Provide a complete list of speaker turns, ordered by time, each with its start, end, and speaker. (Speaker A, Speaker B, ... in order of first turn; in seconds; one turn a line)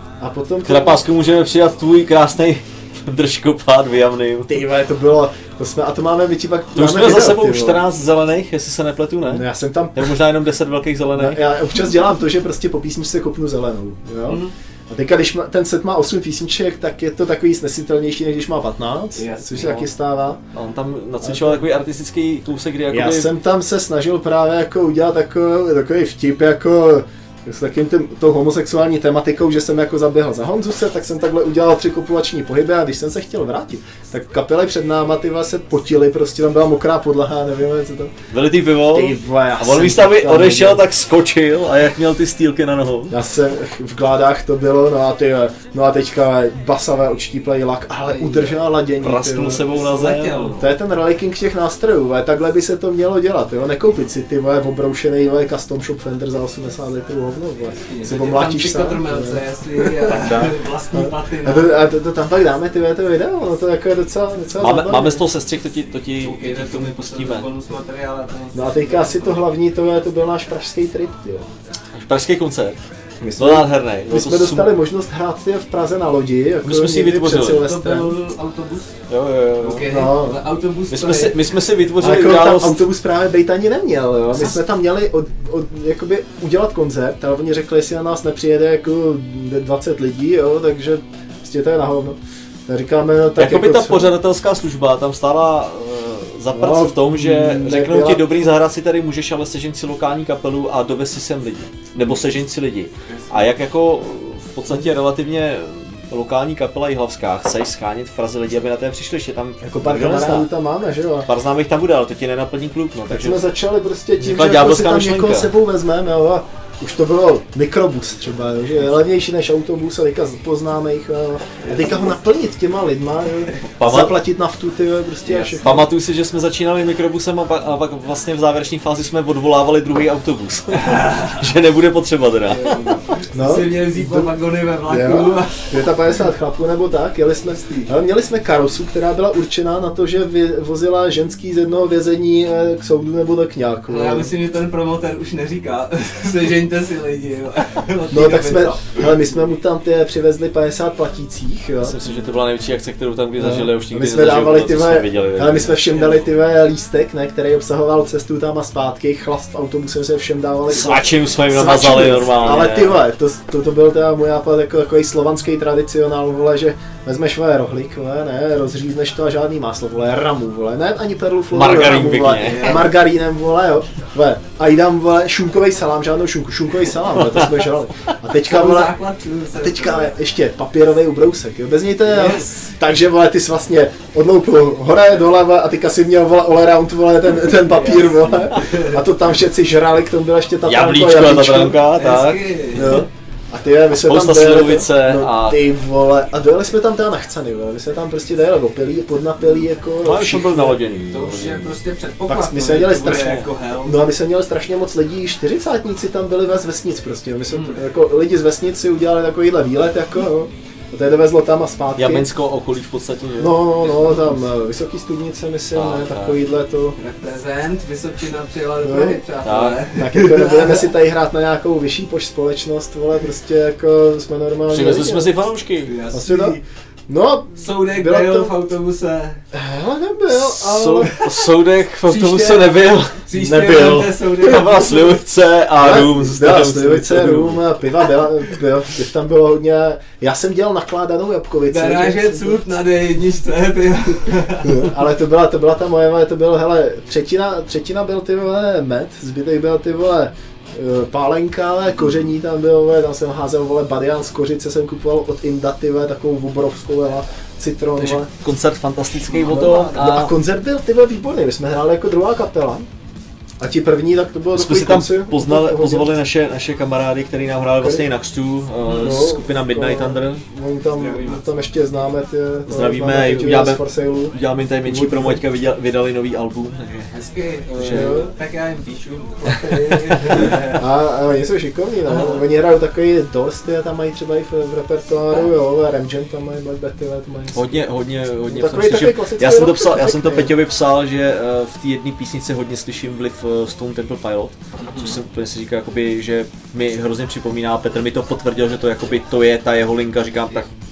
Speaker A: 0.2-1.0
Speaker B: 0.7-4.5
Speaker A: 4.5-7.8
Speaker B: 6.8-11.5
Speaker A: 9.3-10.1
Speaker A: 11.1-20.4
Speaker C: 14.3-14.5
Speaker C: 19.1-19.9
Speaker B: 20.5-23.3
Speaker A: 21.2-21.6
Speaker A: 22.9-38.1
Speaker B: 38.3-43.2
Speaker A: 38.9-40.9
Speaker A: 43.1-49.7
Speaker C: 48.0-48.5
Speaker B: 49.0-50.5
Speaker C: 49.7-50.7
Speaker A: 50.6-60.3
Speaker C: 57.9-61.9
Speaker B: 60.2-60.6
Speaker A: 60.9-65.2
Speaker B: 64.6-67.5
Speaker C: 66.2-69.4
Speaker A: 68.5-71.5
Speaker B: 71.9-72.8
Speaker A: 73.2-78.2
Speaker B: 73.4-74.7
Speaker B: 76.6-77.7
Speaker C: 77.6-79.0
Speaker B: 79.1-79.9
Speaker C: 79.6-81.4
Speaker A: 79.8-80.4
Speaker B: 80.9-82.8
Speaker A: 82.0-94.2
Speaker B: 93.4-110.5
Speaker A: 96.5-98.4
Speaker C: 103.1-103.5
Speaker A: 109.6-111.3
Speaker B: 111.2-113.5
Speaker A: 113.1-125.9
Speaker B: 114.2-115.5
Speaker C: 121.6-122.0
Speaker B: 123.7-124.2
Speaker C: 125.3-125.6
Speaker B: 125.6-132.9
Speaker C: 130.8-131.4
Speaker C: 132.5-135.7
Speaker A: 132.7-134.3
Speaker A: 134.9-144.3
Speaker C: 143.9-149.1
Speaker A: 148.1-152.0
Speaker B: 151.8-155.9
Speaker A: 153.4-179.0
Speaker C: 155.9-156.2
Speaker B: 160.7-163.0
Speaker B: 171.5-172.8
Speaker C: 172.4-172.9
Speaker C: 178.4-180.2
Speaker A: 179.6-191.8
Speaker C: 182.1-182.7
Speaker C: 187.7-189.0
Speaker B: 190.7-193.1
Speaker C: 191.9-193.0
Speaker A: 192.7-200.8
Speaker B: 194.0-195.6
Speaker B: 200.0-201.8
Speaker C: 201.1-204.0
Speaker A: 202.3-212.3
Speaker B: 203.1-203.5
Speaker C: 207.5-207.8
Speaker B: 212.0-213.6
Speaker A: 213.4-217.0
Speaker C: 213.8-214.4
Speaker B: 215.7-216.4
Speaker C: 217.0-220.8
Speaker A: 218.8-219.2
Speaker B: 219.4-219.9
Speaker A: 219.9-225.3
Speaker B: 224.7-226.0
Speaker C: 225.8-226.6
Speaker A: 226.1-228.5
Speaker C: 227.6-229.4
Speaker A: 229.5-231.2
Speaker B: 230.3-237.8
Speaker C: 232.1-235.2
Speaker A: 233.4-234.1
Speaker A: 235.8-242.7
Speaker C: 241.7-244.8
Speaker A: 244.6-258.3
Speaker B: 258.0-260.4
Speaker C: 259.3-260.1
Speaker A: 259.5-262.9
Speaker A: 263.6-266.1
Speaker B: 264.5-270.4
Speaker A: 267.8-268.1
Speaker C: 268.8-269.2
Speaker A: 268.9-275.4
Speaker C: 270.9-271.6
Speaker B: 272.7-277.1
Speaker C: 277.1-280.8
Speaker B: 277.8-278.2
Speaker A: 277.8-278.3
Speaker A: 280.3-287.7
Speaker C: 282.1-282.4
Speaker B: 287.5-300.7
Speaker A: 288.4-290.5
Speaker C: 294.8-295.2